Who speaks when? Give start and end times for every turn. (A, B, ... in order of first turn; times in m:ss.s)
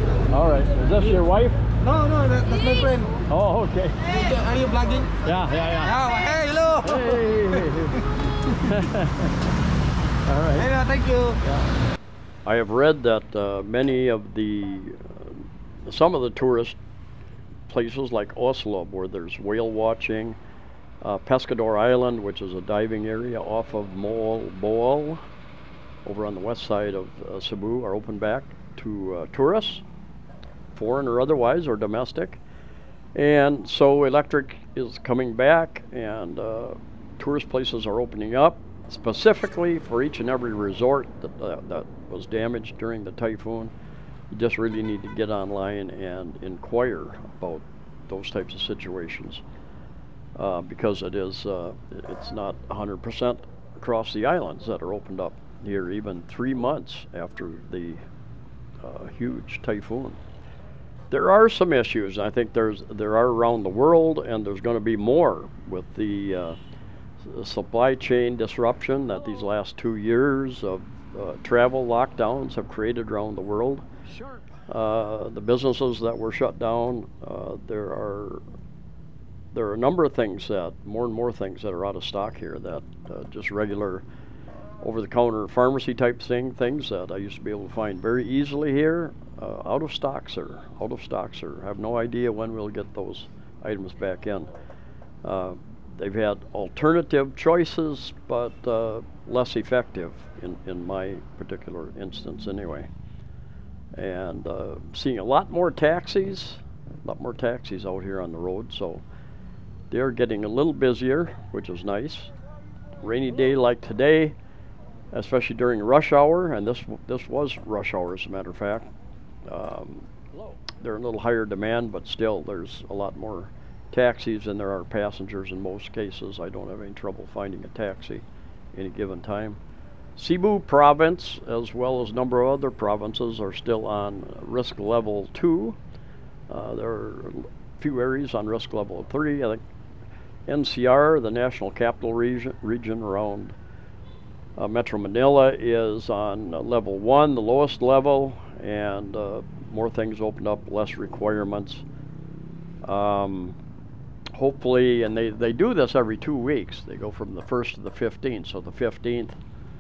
0:00.3-0:01.6 A
0:01.8-0:03.2 B
0:03.3-0:04.2 A
0:04.1-0:05.2 B
0:05.2-0:06.0 A
0:05.9-0:06.9 B
0:06.8-0:09.4 A
0:10.2-0:10.8 A
0:11.4-0:11.6 A
0:12.4-0:16.8 A
0:17.7-0:20.4 A
0:21.0-0:25.2 A
0:26.0-0:29.8 A
0:30.7-0:32.4 A
0:33.1-0:43.7 A
0:44.3-0:49.4 A
0:50.4-0:58.0 A
0:58.8-1:00.2 A
1:01.1-1:06.6 A
1:07.2-1:13.8 A
1:14.6-1:18.4 A
1:19.5-1:24.0 A
1:24.8-1:34.5 A
1:35.2-1:42.9 A
1:44.0-1:49.0 A
1:49.9-1:52.3 A
1:53.0-1:54.3 A
1:55.1-1:58.9 A
1:59.5-2:09.6 A
2:10.2-2:15.8 A
2:16.5-2:19.6 A
2:20.5-2:23.6 A
2:24.6-2:31.8 A
2:32.8-2:33.6 A
2:34.3-2:39.4 A